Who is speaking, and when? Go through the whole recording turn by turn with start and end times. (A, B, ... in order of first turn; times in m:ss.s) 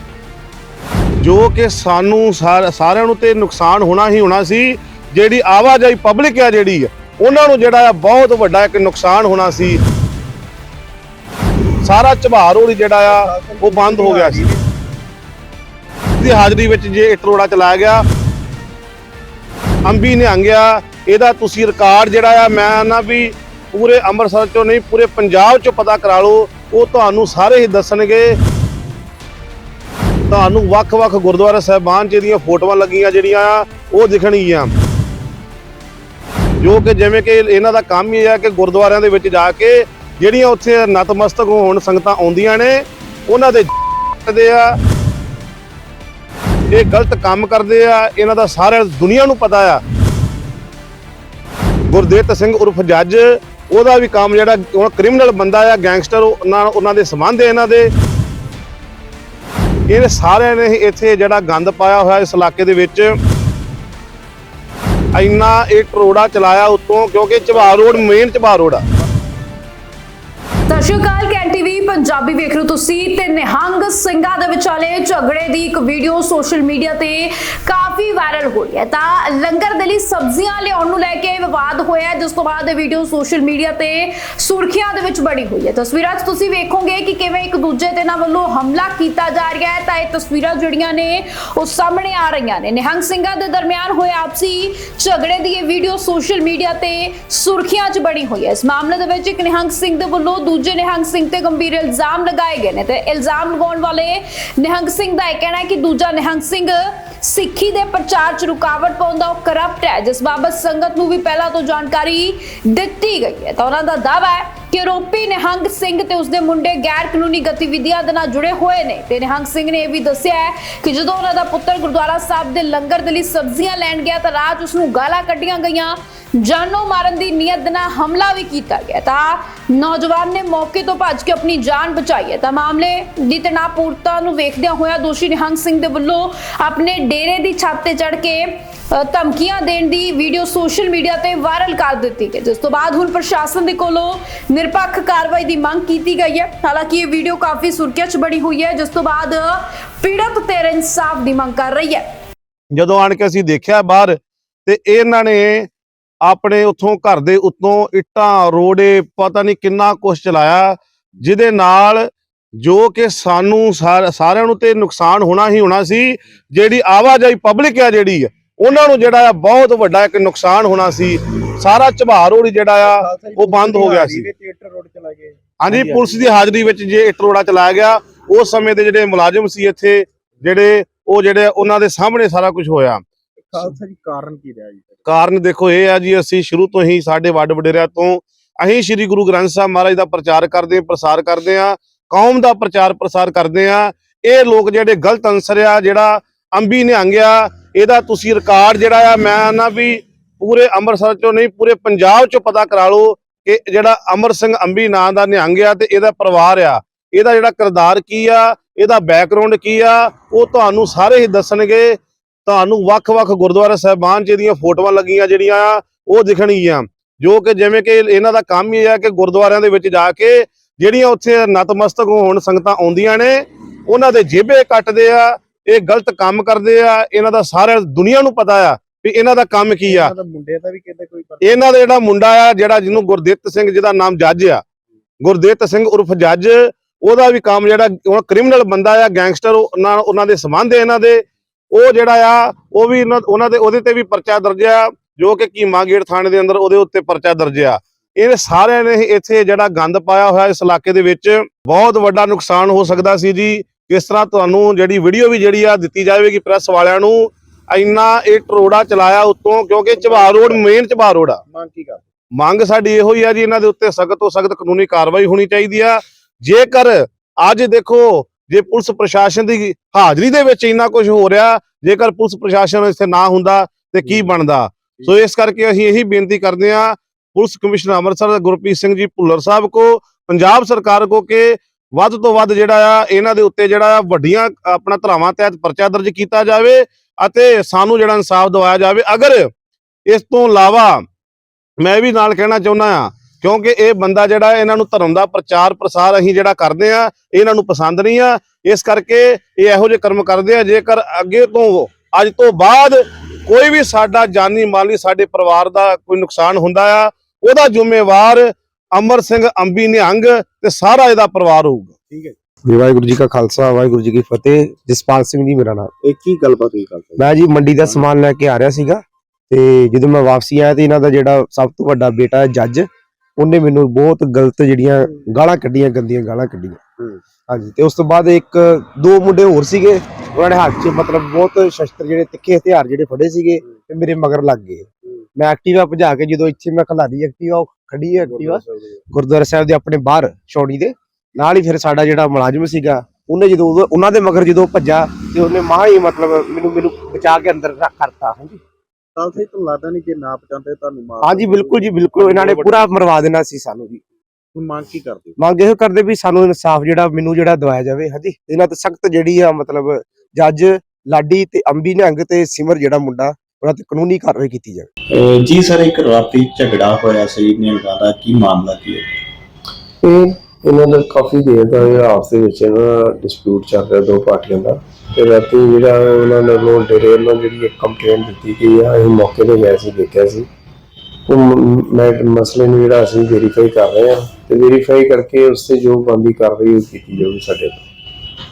0:01.2-0:09.8 A
0:11.8-0:14.4 A
0:13.1-0:14.6 B
0:16.2-0:18.0 A
0:19.8-0:28.4 A
0:30.3-0:34.7 A
0:36.6-0:44.8 A
0:46.7-0:49.8 A
0:51.9-0:57.9 A
0:59.9-1:03.1 A
1:05.1-1:08.8 A
1:07.5-1:07.9 B
1:10.7-2:32.0 C
2:32.7-2:35.7 A
2:36.2-2:42.1 A
2:42.6-2:54.3 A
2:52.8-2:56.3 B
2:55.6-3:03.0 A
3:03.4-3:05.0 B
3:05.0-3:50.1 A
3:49.8-3:51.6 B
3:51.4-3:54.6 A
3:55.2-4:21.4 A
4:19.9-4:20.6 B
4:21.4-4:22.0 B
4:22.4-4:49.5 A
4:50.1-4:51.0 A
4:51.8-5:11.9 A
5:12.1-5:12.3 B
5:12.7-5:15.9 D
5:16.0-5:17.3 B
5:16.5-5:17.1 E
5:17.2-5:22.9 D
5:23.4-5:26.9 D
5:27.5-5:48.6 D
5:49.2-5:52.9 B
5:51.2-5:54.0 D
5:54.5-5:55.4 B
5:55.4-6:04.9 D
6:05.1-6:09.1 E
6:10.0-6:20.5 F
6:21.3-6:27.8 F